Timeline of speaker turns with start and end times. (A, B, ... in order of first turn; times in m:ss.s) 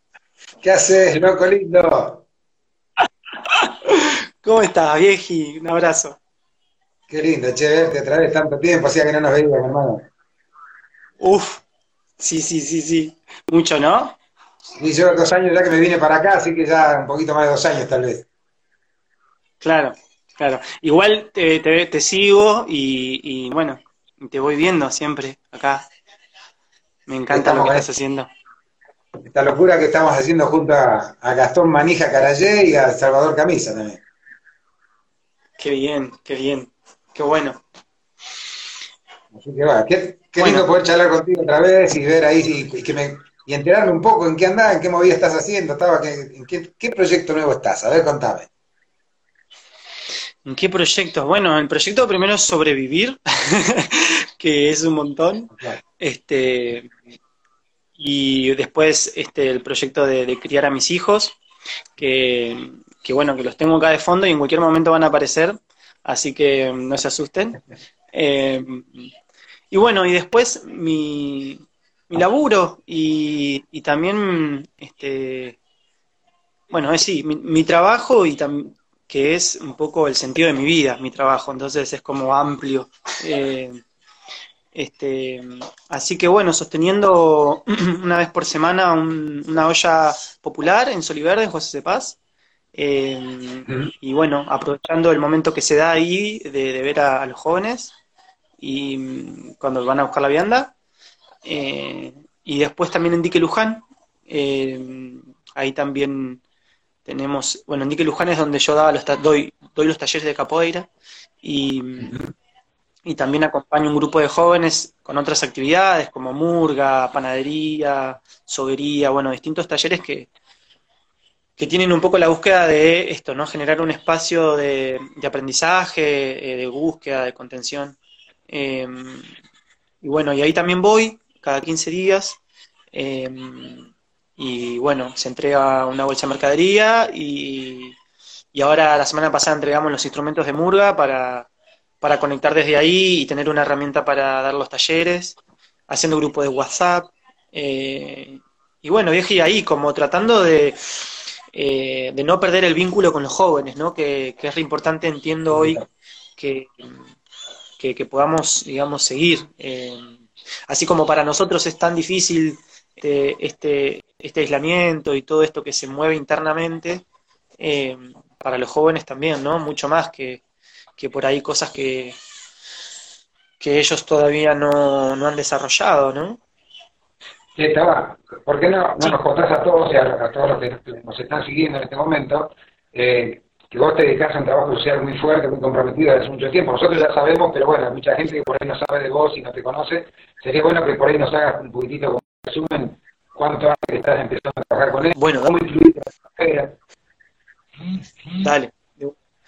0:00.6-0:02.2 A
0:03.5-0:06.2 B
0:07.1-0:10.1 A
0:11.2-0:11.6 B
0:12.2-0:14.2 B
0:14.8-0:18.3 A
0:19.6-0:25.9 B
0:27.1-0:28.3 B
0:27.3-0:27.9 A
0:29.2-0:34.0 A
0:35.6-0:37.6 B
0:39.3-0:48.5 A
0:40.4-0:40.7 B
0:50.4-0:56.9 B
0:58.0-1:01.4 B
1:02.0-1:07.6 B
1:08.1-1:09.1 B
1:09.7-1:15.6 B
1:16.7-1:23.8 B
1:24.7-1:32.2 B
1:32.8-1:37.9 B
1:38.6-1:40.7 B
1:41.4-1:46.4 B
1:47.0-1:50.9 B
1:51.4-1:52.1 B
1:52.0-1:52.3 A
1:53.0-2:00.3 B
2:01.6-2:08.0 B
2:08.5-2:09.3 B
2:10.0-2:12.4 B
2:12.9-2:18.0 B
2:18.5-2:21.5 B
2:22.0-2:25.4 B
2:25.9-2:35.8 B
2:35.5-2:35.9 A
2:36.4-2:36.9 B
2:37.8-2:47.0 B
2:47.6-2:50.4 B
2:51.0-2:52.2 B
2:53.6-2:56.4 B
2:57.6-3:16.8 A
3:15.2-3:15.5 B
3:17.8-3:18.5 A
3:18.4-3:19.2 B